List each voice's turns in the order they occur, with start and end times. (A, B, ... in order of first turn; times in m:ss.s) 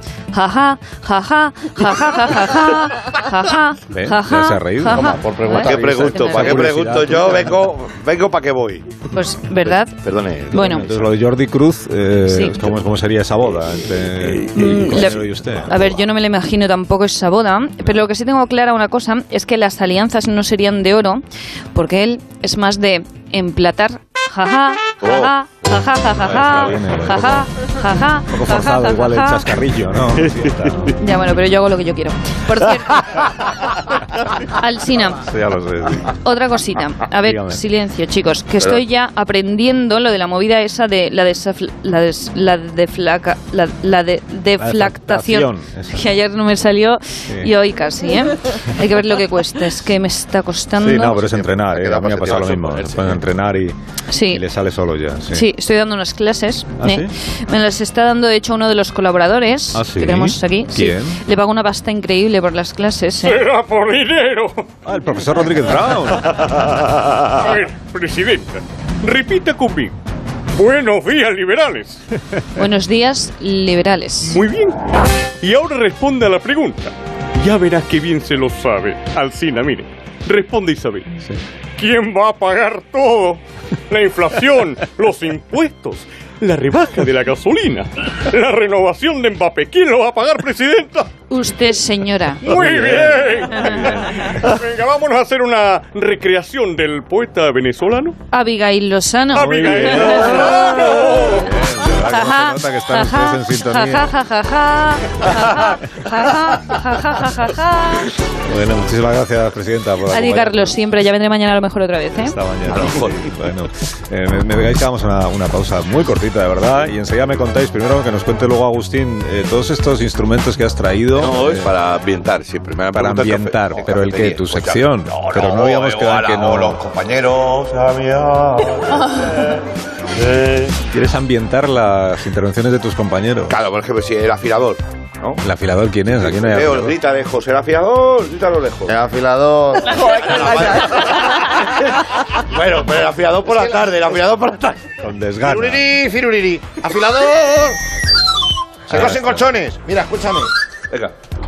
0:00.3-0:06.6 A
0:04.0-0:07.6 B
0:05.2-0:09.0 C
0:05.4-0:06.3 D
0:09.1-0:09.9 A
0:09.6-0:11.2 C
0:10.5-0:10.8 A
0:10.5-0:15.8 B
0:12.3-0:12.5 A
0:13.4-0:16.0 C
0:14.5-0:21.2 A
0:21.7-0:29.4 A
0:25.0-0:25.3 C
0:26.2-0:27.5 B
0:28.3-0:30.9 B
0:30.9-0:33.3 A
0:34.5-0:35.2 A
0:35.2-0:36.1 B
0:36.2-0:51.2 A
0:37.2-0:37.6 B
0:44.6-0:46.1 B
0:50.8-0:53.7 B
0:51.2-0:53.2 C
0:54.1-0:54.4 A
0:54.3-0:55.5 B
0:55.3-1:03.4 A
0:56.8-0:57.1 B
0:59.7-1:01.2 B
1:03.2-1:04.7 E
1:04.8-1:06.6 B
1:07.3-1:09.9 E
1:10.6-1:12.0 E
1:12.6-1:14.4 A
1:14.2-1:14.9 E
1:15.4-1:21.2 E
1:21.8-1:31.1 E
1:31.3-1:32.6 A
1:32.4-1:38.2 E
1:38.3-1:41.0 A
1:39.3-1:41.4 E
1:39.4-1:40.8 B
1:41.3-1:44.1 B
1:42.1-1:48.0 A
1:48.4-1:50.8 B
1:50.1-1:52.4 A
1:52.1-2:01.7 B
1:52.6-1:53.3 C
2:01.1-2:09.6 C
2:02.9-2:06.8 B
2:10.1-2:10.8 C
2:10.9-2:13.6 B
2:13.5-2:15.4 C
2:15.4-2:17.0 B
2:16.0-2:18.9 C
2:18.9-2:20.8 D
2:19.9-2:24.9 C
2:23.4-2:24.0 D
2:25.0-2:25.8 B
2:25.4-2:27.8 D
2:28.9-2:30.5 D
2:28.9-2:29.4 B